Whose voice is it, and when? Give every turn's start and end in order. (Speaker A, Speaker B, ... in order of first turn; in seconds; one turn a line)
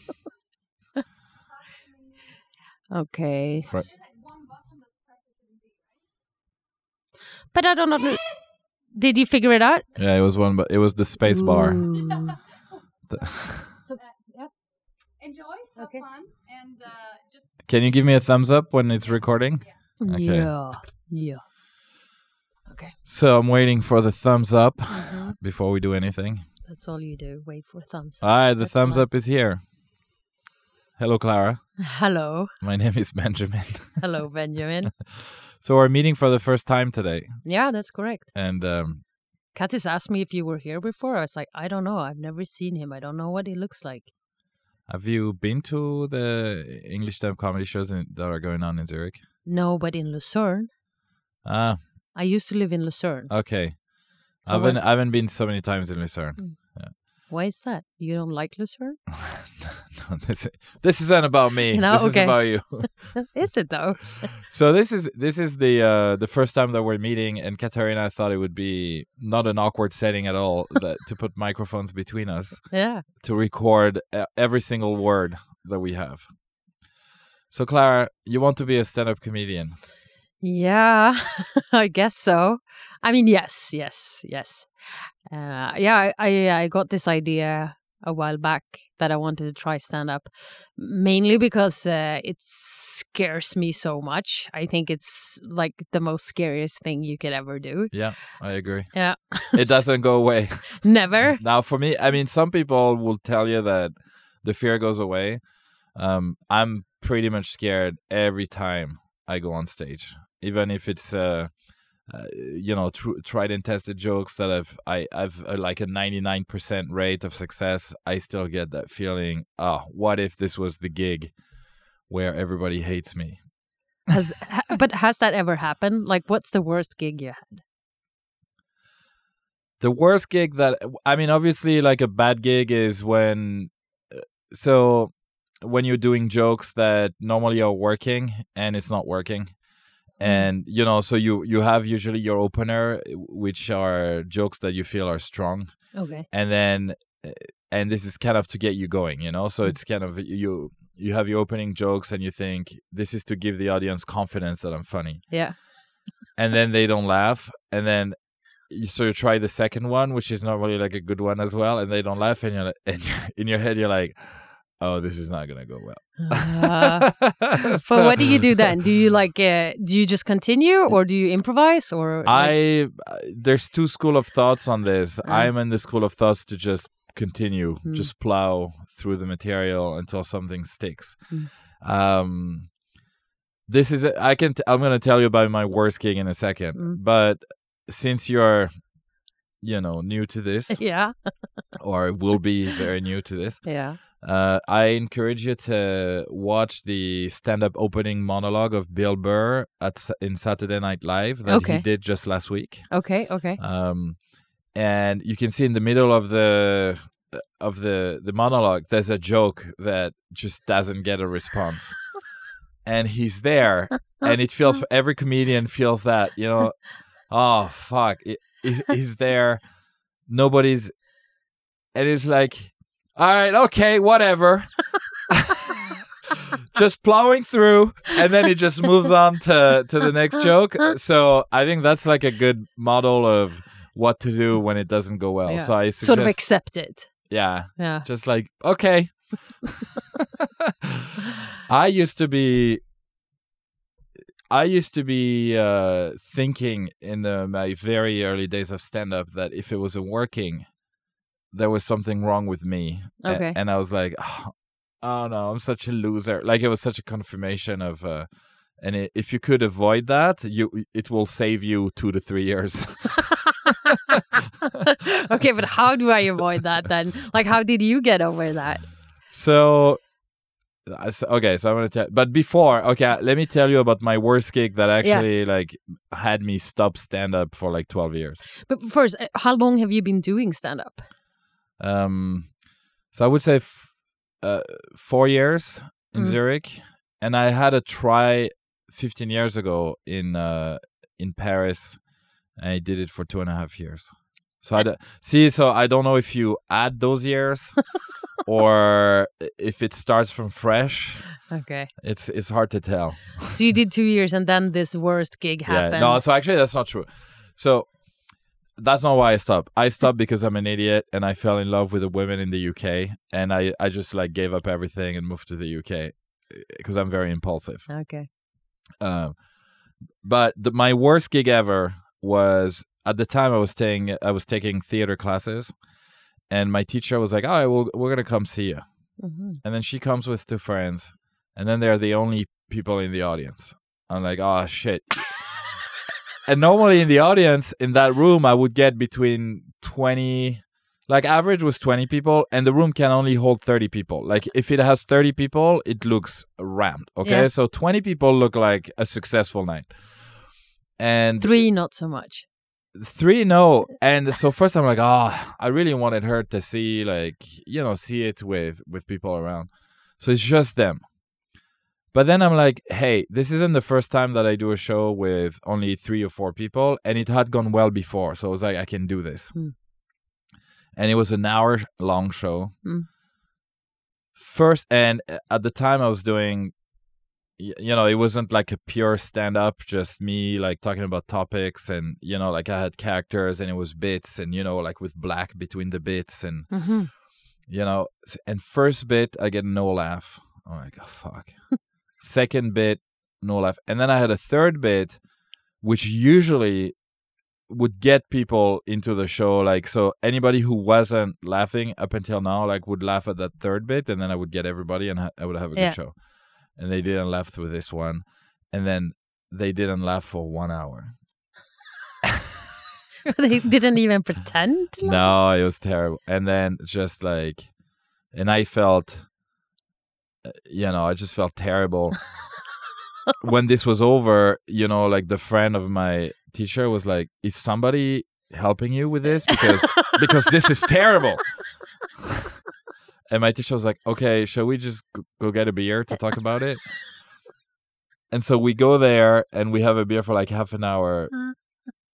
Speaker A: 1.5-2.5
Speaker B: 2.9-3.8
Speaker A: 3.6-6.1
Speaker C: 3.7-3.9
Speaker B: 7.5-9.9
Speaker A: 8.2-8.5
Speaker C: 10.0-12.0
Speaker B: 11.3-12.3
Speaker C: 13.1-13.7
Speaker A: 13.1-17.9
Speaker B: 15.8-16.0
Speaker C: 17.7-20.7
Speaker A: 19.0-19.8
Speaker B: 20.0-21.4
Speaker B: 22.7-22.9
Speaker C: 23.1-26.4
Speaker B: 24.9-25.4
Speaker B: 26.7-29.1
Speaker C: 28.2-29.6
Speaker C: 31.0-32.0
Speaker B: 31.9-32.5
Speaker C: 32.6-34.2
Speaker B: 34.0-34.9
Speaker C: 35.0-37.8
Speaker B: 37.4-38.3
Speaker C: 38.3-39.0
Speaker B: 39.5-44.1
Speaker C: 44.9-49.2
Speaker B: 49.5-50.7
Speaker C: 51.4-51.9
Speaker B: 52.1-53.9
Speaker C: 53.3-56.9
Speaker B: 54.5-54.8
Speaker B: 56.4-59.0
Speaker C: 59.5-63.5
Speaker B: 61.7-64.4
Speaker C: 64.5-76.6
Speaker B: 72.7-73.0
Speaker C: 77.5-79.8
Speaker B: 80.4-101.4
Speaker C: 97.9-124.0
Speaker B: 124.1-127.6
Speaker C: 129.8-155.7
Speaker B: 140.2-140.5
Speaker B: 145.9-146.3
Speaker B: 155.3-155.7
Speaker C: 156.3-168.7
Speaker B: 166.2-172.6
Speaker C: 172.2-182.8
Speaker B: 175.2-175.5
Speaker B: 177.8-178.1
Speaker C: 183.7-212.3
Speaker B: 186.7-187.0
Speaker B: 190.7-191.6
Speaker B: 193.6-194.0
Speaker B: 201.5-203.6
Speaker C: 212.8-221.4
Speaker C: 221.9-225.3
Speaker C: 226.7-239.7
Speaker B: 235.5-238.1
Speaker C: 241.7-242.9
Speaker C: 244.5-263.5
Speaker B: 253.2-253.6
Speaker B: 265.3-268.9
Speaker C: 269.3-278.5
Speaker B: 278.7-281.1
Speaker C: 281.8-303.6
Speaker B: 301.5-301.9
Speaker B: 303.5-306.2
Speaker C: 305.7-318.1
Speaker B: 317.9-318.3
Speaker C: 319.0-335.6
Speaker B: 329.2-329.6
Speaker C: 336.4-351.7
Speaker B: 351.4-352.5
Speaker C: 352.9-361.6
Speaker C: 362.1-369.8
Speaker C: 370.9-372.7
Speaker C: 374.4-411.4
Speaker B: 386.7-387.1
Speaker B: 413.3-415.2
Speaker C: 415.0-419.3
Speaker C: 420.4-422.4
Speaker C: 423.4-432.0
Speaker C: 433.3-437.4
Speaker C: 438.3-441.6